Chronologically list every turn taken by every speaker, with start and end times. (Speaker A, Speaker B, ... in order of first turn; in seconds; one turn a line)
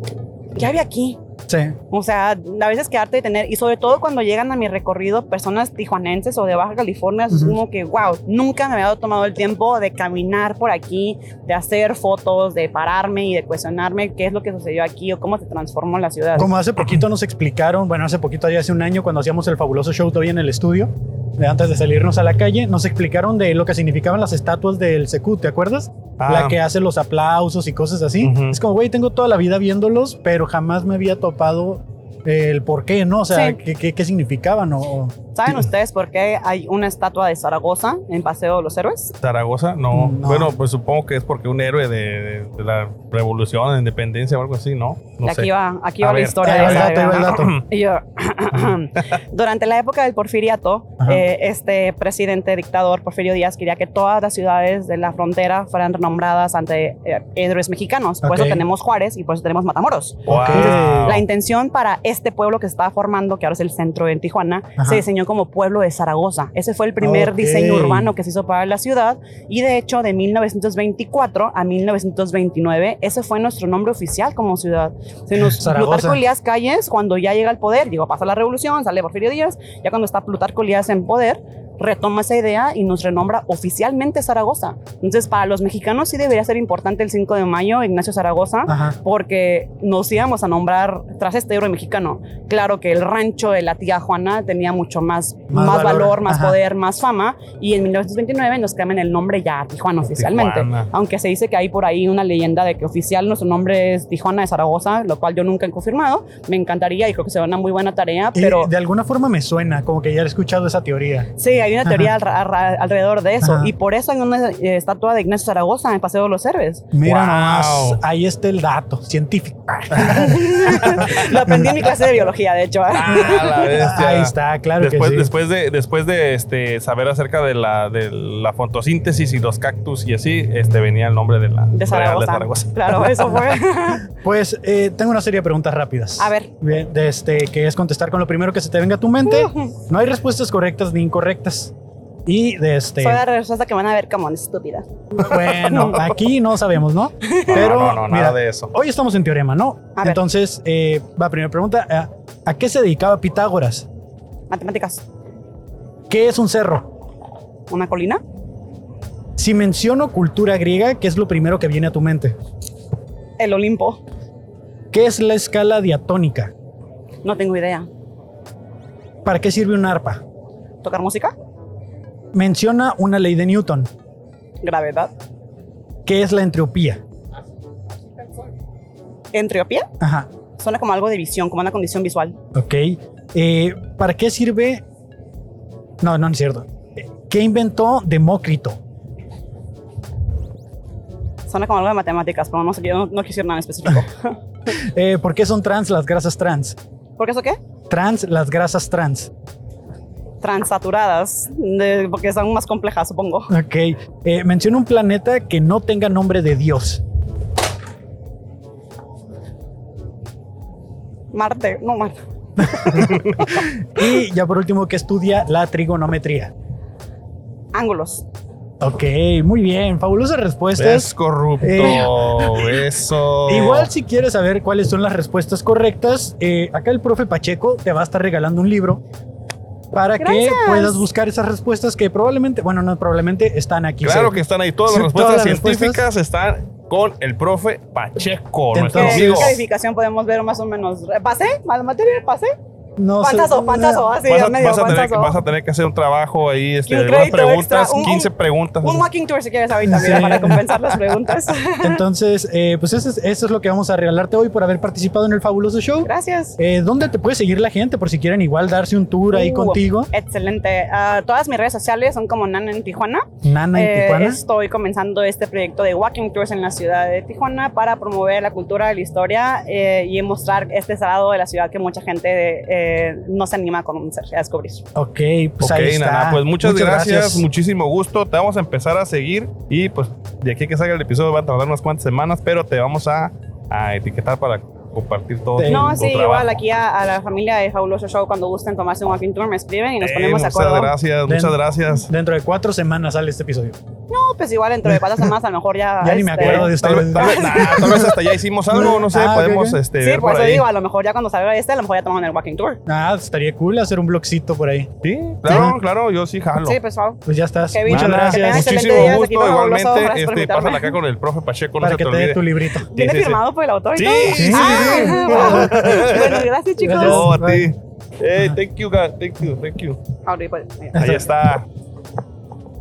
Speaker A: 0.6-1.2
Speaker B: 1.5-1.8
Speaker A: 1.9-16.5
Speaker B: 7.3-7.6
Speaker B: 16.4-35.1
Speaker C: 26.2-26.6
Speaker C: 28.2-28.6
Speaker A: 33.3-33.6
Speaker A: 35.4-39.1
Speaker C: 39.2-45.5
Speaker B: 39.9-40.5
Speaker A: 45.2-108.7
Speaker C: 46.0-47.6
Speaker B: 46.4-47.6
Speaker B: 58.2-58.6
Speaker B: 60.3-61.2
Speaker C: 60.3-61.2
Speaker B: 64.8-65.0
Speaker B: 67.0-68.1
Speaker B: 75.4-76.2
Speaker B: 88.7-89.0
Speaker B: 95.5-96.6
Speaker C: 100.0-100.9
Speaker B: 108.3-111.3
Speaker A: 111.4-116.8
Speaker B: 111.8-112.1
Speaker B: 113.4-113.7
Speaker B: 116.9-121.8
Speaker C: 117.0-118.0
Speaker C: 119.9-121.1
Speaker A: 120.0-123.7
Speaker C: 122.9-133.2
Speaker B: 123.3-125.3
Speaker A: 131.7-134.1
Speaker B: 134.1-141.7
Speaker A: 136.2-136.5
Speaker A: 139.3-139.7
Speaker B: 142.3-143.2
Speaker A: 143.0-145.9
Speaker B: 145.2-153.9
Speaker A: 147.2-147.6
Speaker C: 147.5-148.7
Speaker A: 154.5-155.0
Speaker B: 156.1-156.9
Speaker A: 157.7-158.2
Speaker B: 159.4-162.4
Speaker A: 163.4-164.0
Speaker B: 164.9-166.5
Speaker A: 167.2-167.9
Speaker B: 169.2-170.2
Speaker A: 170.8-171.3
Speaker B: 172.3-173.9
Speaker A: 174.6-175.1
Speaker B: 176.1-177.0
Speaker A: 179.3-179.9
Speaker B: 180.0-180.3
Speaker A: 180.6-182.4
Speaker B: 182.5-184.8
Speaker B: 186.0-188.8
Speaker A: 191.5-194.4
Speaker B: 194.7-196.8
Speaker A: 197.2-197.6
Speaker B: 197.9-199.3
Speaker A: 200.4-203.5
Speaker B: 203.5-207.0
Speaker A: 211.3-212.2
Speaker B: 212.6-216.5
Speaker C: 213.0-213.4
Speaker A: 217.7-218.2
Speaker B: 218.8-222.8
Speaker C: 220.8-223.9
Speaker B: 223.5-229.0
Speaker B: 229.9-236.0
Speaker A: 230.2-231.1
Speaker C: 234.0-239.6
Speaker B: 238.7-239.6
Speaker A: 238.9-242.6
Speaker B: 243.0-244.1
Speaker A: 243.2-245.4
Speaker C: 244.3-249.1
Speaker A: 246.9-252.0
Speaker B: 249.8-250.7
Speaker B: 251.8-260.1
Speaker A: 256.0-256.6
Speaker A: 259.3-274.8
Speaker B: 263.4-264.4
Speaker B: 274.9-277.5
Speaker C: 275.6-286.5
Speaker B: 285.6-286.0
Speaker A: 285.7-290.9
Speaker C: 290.0-292.1
Speaker B: 291.3-293.8
Speaker A: 294.1-298.1
Speaker B: 294.9-295.2
Speaker B: 296.0-298.1
Speaker C: 296.4-300.7
Speaker B: 298.7-299.8
Speaker A: 300.0-302.8
Speaker B: 302.9-304.9
Speaker C: 305.0-306.8
Speaker B: 305.5-305.8
Speaker A: 306.6-307.2
Speaker B: 307.3-309.2
Speaker A: 307.7-311.0
Speaker C: 307.9-313.4
Speaker B: 311.8-312.9
Speaker A: 312.9-317.3
Speaker C: 314.0-320.0
Speaker B: 314.3-316.0
Speaker B: 316.8-317.7
Speaker A: 320.3-321.1
Speaker B: 320.9-321.3
Speaker C: 321.0-321.7